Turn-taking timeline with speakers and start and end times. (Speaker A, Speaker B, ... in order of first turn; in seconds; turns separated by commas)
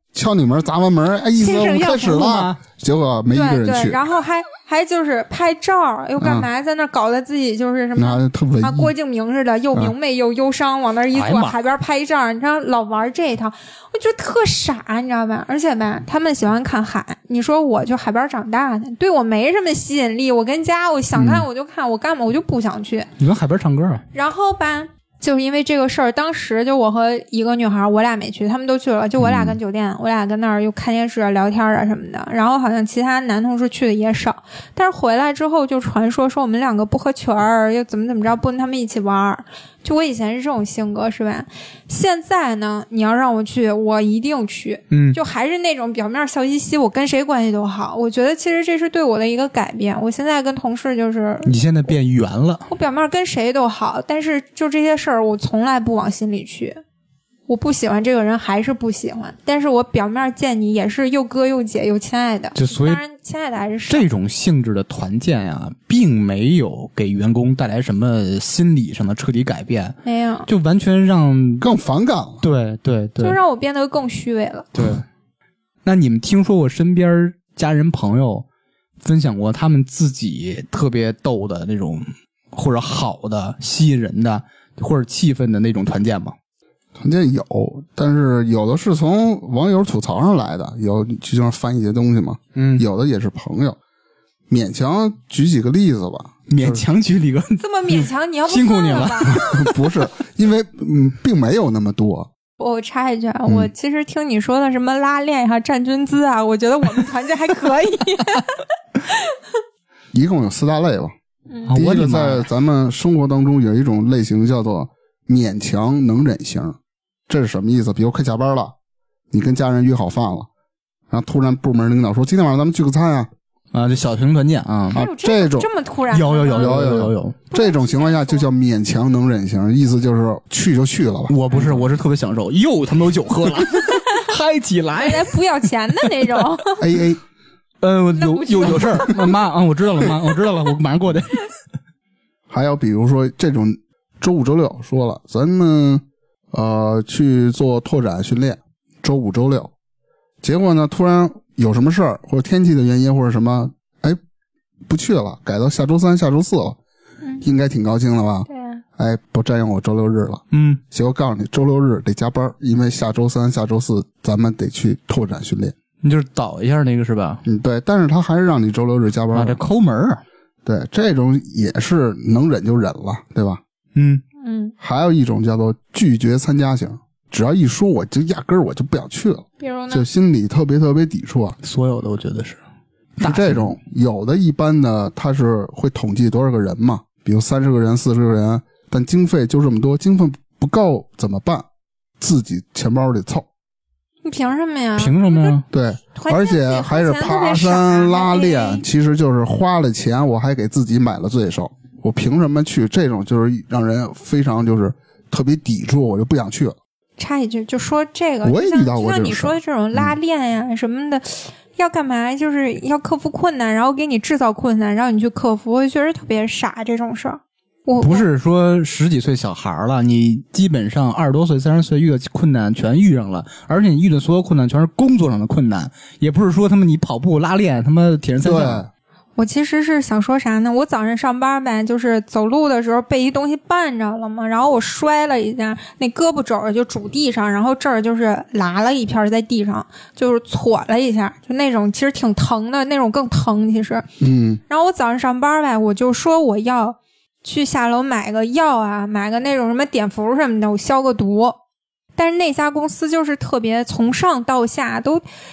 Speaker A: 0.1-4.0, Speaker B: 1.4-2.2, Speaker C: 1.7-2.6, Speaker B: 3.3-23.1, Speaker A: 6.2-6.5, Speaker A: 8.0-8.9, Speaker C: 11.1-11.6, Speaker C: 23.2-24.0, Speaker B: 24.1-51.5, Speaker A: 29.2-29.6, Speaker C: 44.9-45.2, Speaker C: 51.5-52.7, Speaker B: 52.7-56.8, Speaker B: 57.5-64.1, Speaker C: 62.5-63.0, Speaker C: 63.9-71.7, Speaker B: 70.0-70.5, Speaker A: 71.6-72.4, Speaker C: 72.4-73.4, Speaker B: 73.2-74.7, Speaker C: 74.8-75.0, Speaker C: 75.8-78.5, Speaker C: 79.0-86.3, Speaker A: 87.0-93.8, Speaker C: 92.6-92.8, Speaker A: 94.5-96.8, Speaker C: 96.5-99.7, Speaker B: 97.6-99.4, Speaker A: 99.3-102.3, Speaker B: 102.6-109.4, Speaker A: 110.1-111.1, Speaker C: 111.7-112.5, Speaker A: 111.7-116.8, Speaker A: 117.3-118.7, Speaker A: 119.3-120.5, Speaker A: 121.1-123.3, Speaker C: 123.7-125.0, Speaker A: 124.9-125.7, Speaker B: 124.9-127.0, Speaker C: 126.1-127.4, Speaker A: 126.5-131.4, Speaker B: 127.5-128.5, Speaker C: 131.3-135.3, Speaker B: 135.0-136.8, Speaker A: 136.8-137.2, Speaker C: 137.8-141.5, Speaker B: 138.2-139.2, Speaker A: 142.5-149.7, Speaker A: 150.4-154.2, Speaker A: 154.9-156.8, Speaker A: 157.4-165.8, Speaker B: 158.5-158.8, Speaker C: 160.5-160.8, Speaker C: 166.0-167.4, Speaker A: 167.4-169.6, Speaker C: 169.3-170.2, Speaker A: 170.7-173.6, Speaker C: 173.9-174.2, Speaker B: 174.4-174.7, Speaker A: 174.8-181.6, Speaker B: 179.6-180.1, Speaker C: 181.6-182.6, Speaker A: 183.2-191.7, Speaker C: 183.2-183.7, Speaker A: 192.2-193.5, Speaker B: 194.2-195.6, Speaker C: 195.0-195.7, Speaker A: 195.7-206.8, Speaker B: 196.1-198.9, Speaker B: 207.2-218.3, Speaker A: 208.4-210.1, Speaker C: 218.0-228.9, Speaker A: 228.4-228.9, Speaker B: 229.4-244.1, Speaker A: 244.2-244.6, Speaker B: 244.7-251.6, Speaker B: 252.2-255.2